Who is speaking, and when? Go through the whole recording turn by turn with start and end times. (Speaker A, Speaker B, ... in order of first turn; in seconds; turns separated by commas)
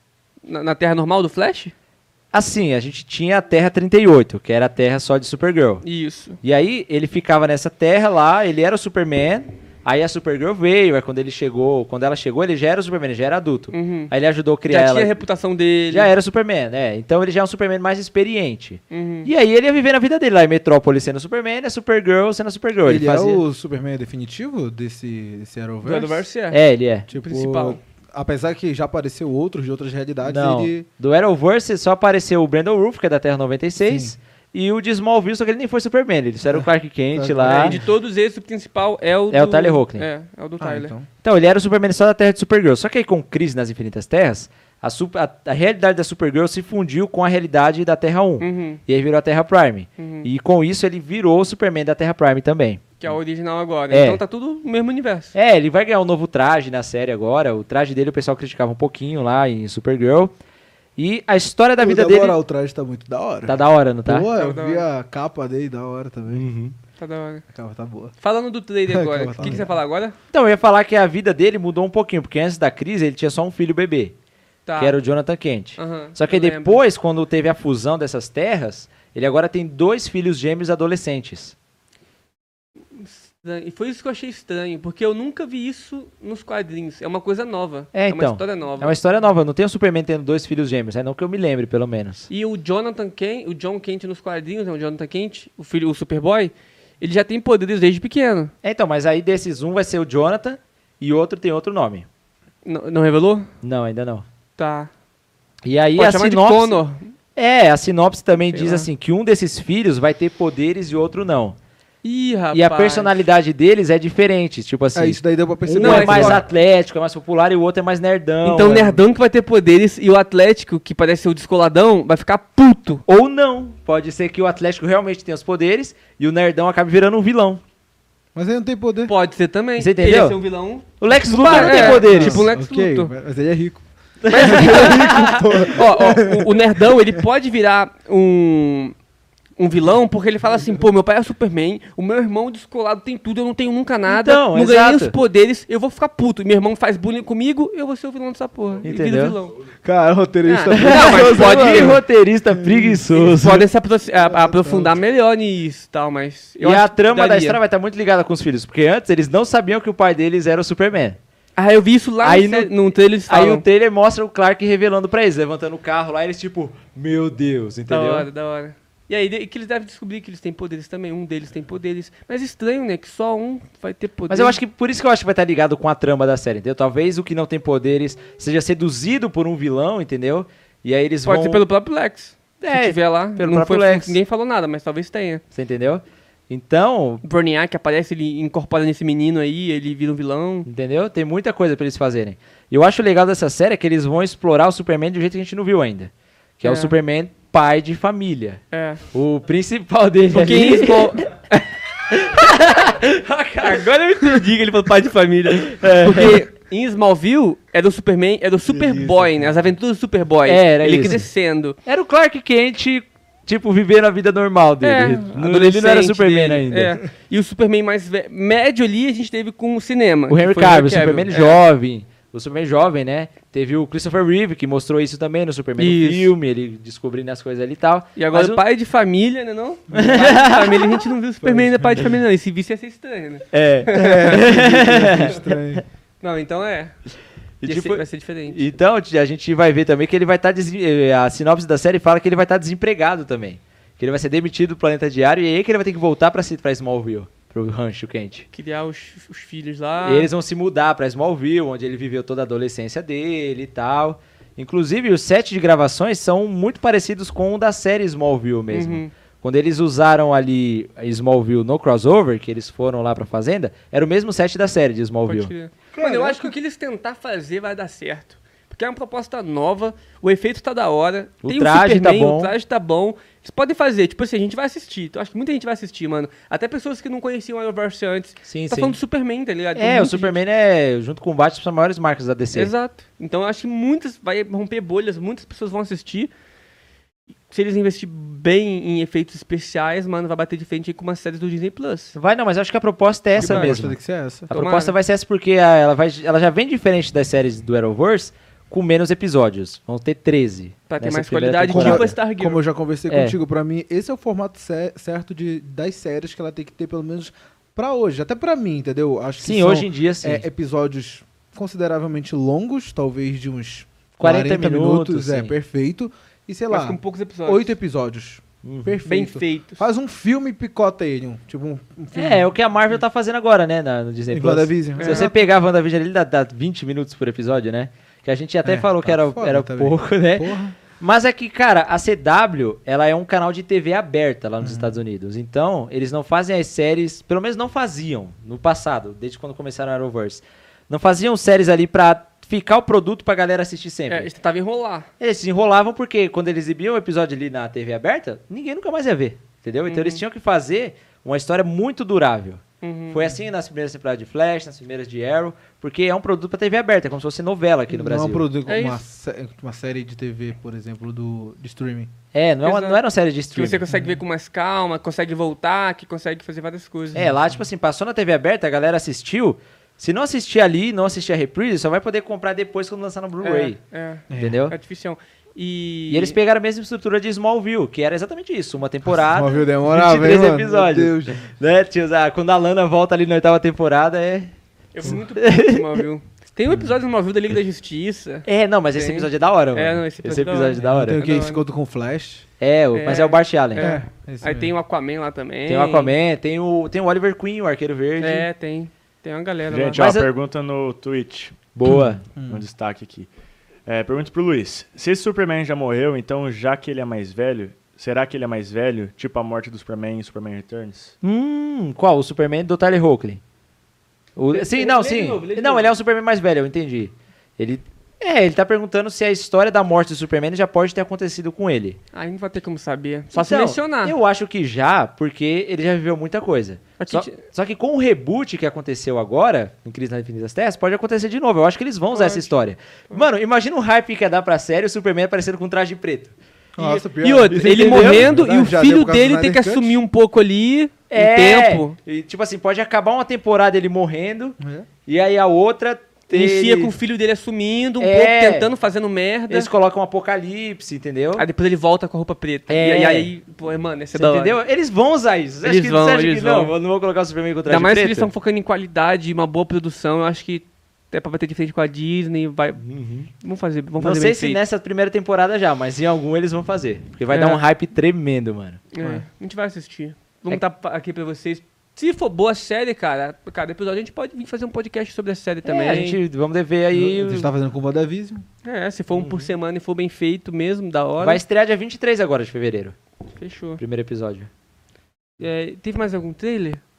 Speaker A: 0.4-1.7, Speaker B: 2.3-5.8, Speaker A: 5.8-6.4, Speaker B: 6.4-15.1, Speaker A: 13.7-14.1, Speaker A: 14.7-16.1, Speaker B: 15.9-23.4, Speaker A: 18.9-19.3, Speaker C: 22.8-26.2, Speaker A: 25.8-26.6, Speaker B: 26.5-27.1, Speaker C: 27.1-30.9, Speaker A: 27.1-27.8, Speaker B: 30.2-37.8, Speaker C: 33.8-34.1, Speaker C: 36.5-37.9, Speaker A: 37.4-40.9, Speaker B: 39.3-40.1, Speaker C: 40.6-41.1, Speaker B: 41.2-53.0, Speaker A: 48.4-48.8, Speaker A: 50.0-50.3, Speaker A: 53.0-55.3, Speaker B: 53.9-54.2, Speaker B: 55.3-60.3, Speaker B: 61.0-62.4, Speaker C: 61.8-66.4, Speaker B: 63.4-64.3, Speaker A: 64.3-64.8, Speaker B: 66.3-66.7, Speaker A: 67.0-67.4, Speaker C: 67.5-68.1, Speaker A: 68.2-70.2, Speaker C: 68.9-69.7, Speaker B: 70.3-74.1, Speaker A: 74.7-75.0, Speaker B: 74.8-81.5, Speaker A: 75.8-76.8, Speaker A: 82.9-88.9, Speaker B: 87.9-92.3, Speaker A: 92.3-98.5, Speaker B: 98.6-102.1, Speaker A: 102.6-103.5, Speaker B: 103.6-104.2, Speaker A: 104.6-104.9, Speaker B: 105.6-106.8, Speaker A: 106.0-107.1, Speaker B: 107.3-111.6, Speaker A: 108.5-108.9, Speaker A: 112.0-113.2, Speaker B: 112.5-119.0, Speaker C: 114.9-116.4, Speaker A: 115.7-116.4, Speaker A: 118.4-123.0, Speaker B: 123.0-127.6, Speaker C: 128.3-129.1, Speaker A: 129.1-133.1, Speaker B: 129.8-130.4, Speaker B: 131.0-132.5, Speaker C: 131.5-137.2, Speaker B: 134.2-135.7, Speaker A: 134.3-138.9, Speaker A: 139.6-149.5, Speaker B: 144.1-145.1, Speaker B: 148.8-149.4, Speaker C: 149.8-152.0, Speaker A: 150.4-152.0, Speaker B: 150.7-153.7, Speaker C: 152.5-153.0, Speaker A: 153.1-157.6, Speaker C: 154.3-155.0, Speaker B: 156.6-161.2, Speaker A: 161.6-163.6, Speaker B: 162.2-162.7, Speaker B: 163.3-168.3, Speaker A: 167.9-174.6, Speaker B: 174.3-181.6, Speaker A: 181.2-185.4, Speaker B: 182.6-184.2, Speaker B: 185.5-187.2, Speaker A: 187.2-190.7, Speaker B: 190.7-198.6, Speaker A: 196.6-196.9, Speaker A: 198.7-199.0, Speaker B: 199.1-201.2, Speaker A: 200.3-201.7, Speaker B: 202.1-204.4, Speaker A: 203.6-211.8, Speaker B: 205.6-206.4, Speaker C: 208.7-209.6, Speaker B: 210.4-211.2, Speaker B: 211.8-217.0, Speaker A: 214.8-221.6, Speaker B: 220.3-228.6, Speaker A: 225.8-226.3, Speaker A: 228.2-235.3, Speaker C: 229.9-230.2, Speaker B: 229.9-231.0, Speaker C: 231.4-232.1, Speaker B: 233.5-235.8, Speaker C: 233.9-235.8, Speaker A: 236.2-237.0, Speaker B: 237.6-248.4, Speaker A: 237.6-238.6, Speaker A: 248.5-250.3, Speaker B: 250.0-265.5, Speaker A: 258.7-259.1, Speaker A: 265.3-280.4, Speaker C: 265.9-266.5, Speaker B: 271.4-272.5, Speaker B: 278.4-279.0, Speaker B: 279.8-282.7, Speaker A: 282.5-286.3, Speaker A: 287.5-292.1, Speaker B: 292.1-294.0, Speaker C: 293.4-294.5, Speaker A: 293.4-293.8, Speaker B: 294.5-302.1, Speaker A: 294.5-294.9, Speaker A: 300.9-302.6, Speaker C: 301.7-322.5, Speaker B: 303.1-303.4, Speaker B: 309.4-310.4, Speaker B: 314.2-315.5, Speaker A: 316.7-317.7, Speaker B: 318.6-319.0, Speaker A: 319.1-319.8, Speaker B: 322.1-344.3, Speaker C: 324.3-325.4, Speaker A: 325.0-325.3, Speaker C: 328.6-330.8, Speaker C: 334.6-334.9, Speaker A: 344.1-345.1, Speaker B: 345.2-358.4, Speaker A: 349.9-350.2, Speaker A: 352.8-353.2, Speaker C: 357.9-362.1, Speaker A: 358.6-359.0, Speaker B: 362.3-363.8, Speaker A: 362.6-363.0, Speaker A: 363.5-367.3, Speaker C: 363.9-364.2, Speaker B: 367.1-373.8, Speaker A: 373.4-376.4, Speaker C: 374.3-374.6, Speaker B: 374.3-374.7, Speaker B: 376.1-384.5, Speaker C: 379.1-381.4, Speaker A: 384.9-391.6, Speaker B: 385.0-385.9, Speaker B: 388.4-391.2, Speaker C: 390.8-392.4, Speaker B: 392.6-393.9, Speaker A: 392.9-396.1, Speaker C: 393.8-394.7, Speaker B: 395.7-398.5, Speaker A: 398.2-400.0, Speaker D: 399.7-401.6, Speaker B: 399.9-400.3, Speaker B: 401.7-402.2, Speaker C: 401.9-402.6, Speaker D: 402.5-403.3, Speaker D: 403.9-411.1, Speaker B: 411.2-413.4, Speaker B: 414.4-422.0, Speaker A: 414.5-415.9, Speaker A: 422.1-424.1, Speaker B: 423.3-436.3, Speaker A: 427.0-427.4, Speaker A: 432.1-432.5, Speaker C: 436.8-440.0, Speaker A: 436.8-441.9, Speaker B: 437.5-438.3, Speaker B: 441.1-446.9, Speaker C: 444.6-444.9, Speaker A: 446.3-449.7, Speaker B: 448.0-448.7, Speaker B: 449.5-451.4, Speaker A: 451.4-454.6, Speaker B: 452.7-453.3, Speaker B: 454.1-458.3, Speaker A: 455.6-456.7, Speaker A: 457.7-464.6, Speaker B: 462.8-463.3, Speaker B: 464.0-468.8, Speaker A: 467.3-467.6, Speaker A: 468.9-476.2, Speaker B: 475.6-477.5, Speaker C: 476.9-478.4, Speaker A: 478.6-481.4, Speaker B: 479.1-479.5, Speaker B: 481.2-482.9, Speaker A: 483.4-483.8, Speaker B: 483.8-484.5, Speaker A: 485.4-486.8